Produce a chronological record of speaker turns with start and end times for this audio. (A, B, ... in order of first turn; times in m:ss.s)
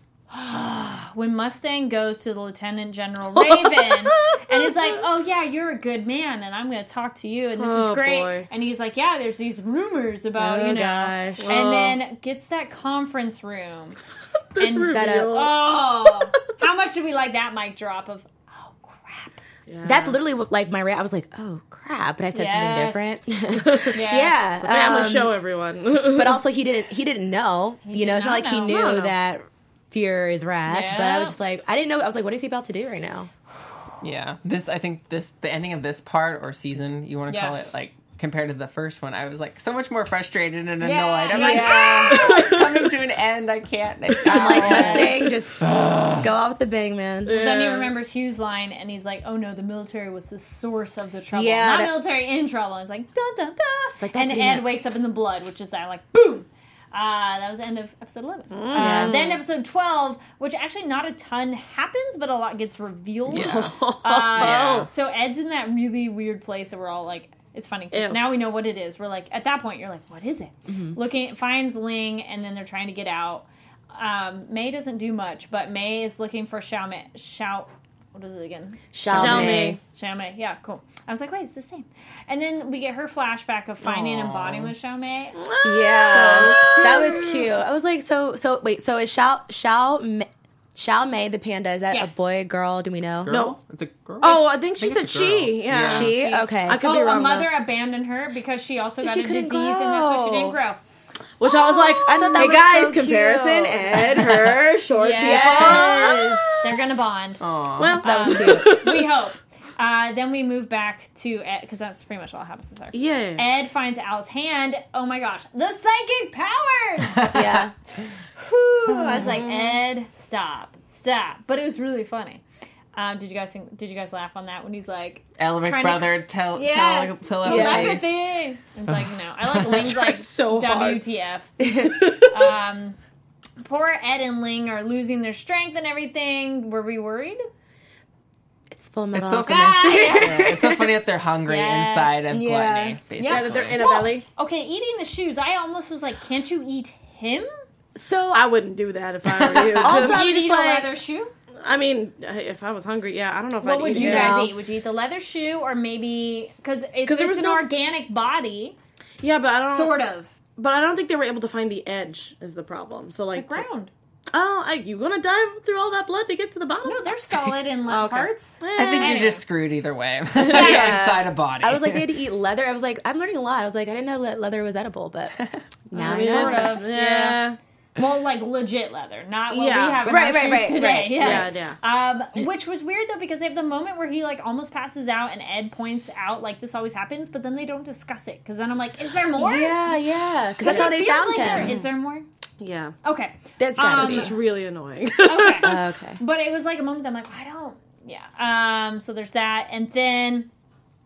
0:00.3-0:14.0 A
0:03.4-0:04.7 B
0:07.6-0:08.5 B
0:10.4-0:11.6 C
0:11.4-0:12.0 B
0:14.5-0:15.9 B
0:14.6-0:19.4 A
0:14.9-0:15.5 C
0:19.7-0:20.2 B
0:19.8-0:25.3 C
0:22.3-0:23.1 A
0:23.6-0:24.0 B
0:23.9-0:24.4 A
0:24.6-0:26.4 B
0:26.1-0:33.3 C
0:27.8-0:29.0 A
0:28.7-0:29.1 B
0:30.7-0:31.4 A
0:34.0-0:46.2 D
0:37.3-0:37.6 A
0:40.8-0:42.5 A
0:41.3-0:42.4 C
0:42.1-0:42.9 B
0:44.2-0:47.3 C
0:44.5-0:45.1 A
0:47.2-0:47.9 B
0:47.3-1:25.4 A
0:51.3-0:52.0 C
0:54.0-0:54.7 C
0:58.5-0:59.4 B
0:58.7-0:59.2 C
1:03.3-1:04.9 B
1:03.3-1:03.7 D
1:04.3-1:04.9 D
1:07.9-1:08.2 B
1:10.7-1:11.0 C
1:18.9-1:19.8 C
1:19.1-1:19.8 B
1:23.8-1:24.7 D
1:25.4-1:27.5 B
1:25.6-1:33.4 C
1:26.1-1:26.5 D
1:31.9-1:32.2 A
1:33.2-1:36.1 D
1:33.3-1:33.6 B
1:34.2-1:37.5 B
1:35.8-1:36.8 C
1:36.1-1:40.8 A
1:39.0-1:40.6 C
1:41.4-1:46.8 B
1:41.5-1:44.3 C
1:41.6-1:42.6 A
1:45.0-1:47.4 A
1:45.2-1:46.6 C
1:47.4-1:48.0 D
1:47.8-1:49.1 B
1:48.0-1:57.3 A
1:48.0-1:48.7 C
1:52.9-1:53.4 B
1:57.1-1:57.6 D
1:57.3-1:57.7 C
1:58.4-2:02.4 A
1:59.1-1:59.8 B
2:02.9-2:11.6 A
2:05.4-2:08.0 D
2:07.4-2:08.0 C
2:09.7-2:11.0 B
2:11.6-2:12.0 C
2:11.8-2:12.4 B
2:12.3-2:13.0 A
2:13.6-2:17.4 A
2:18.7-2:20.9 C
2:19.1-2:23.9 D
2:19.4-2:20.5 A
2:21.4-2:22.2 A
2:22.3-2:23.0 C
2:23.2-2:27.5 A
2:23.2-2:24.2 B
2:27.9-2:28.5 C
2:28.3-2:30.2 B
2:29.3-2:29.9 D
2:29.8-2:30.9 C
2:29.8-2:31.3 A
2:31.6-2:34.5 B
2:33.6-2:38.8 A
2:33.9-2:34.5 C
2:37.0-2:37.7 B
2:39.2-2:40.0 B
2:39.7-2:40.3 A
2:40.6-2:43.6 B
2:43.4-2:43.9 A
2:44.3-2:47.2 B
2:46.8-2:49.4 A
2:47.9-2:49.4 B
2:48.8-2:52.1 D
2:50.4-2:55.4 C
2:50.5-2:50.8 B
2:55.9-2:56.9 C
2:55.9-2:57.4 A
2:55.9-2:57.6 B
2:58.0-3:09.9 A
2:59.5-3:00.1 B
3:00.0-3:01.5 C
3:01.2-3:01.8 B
3:09.4-3:11.7 C
3:10.6-3:12.2 A
3:10.7-3:11.8 B
3:12.6-3:12.9 B
3:13.0-3:14.3 A
3:13.6-3:14.3 C
3:13.9-3:15.8 B
3:15.2-3:20.5 A
3:15.6-3:16.2 C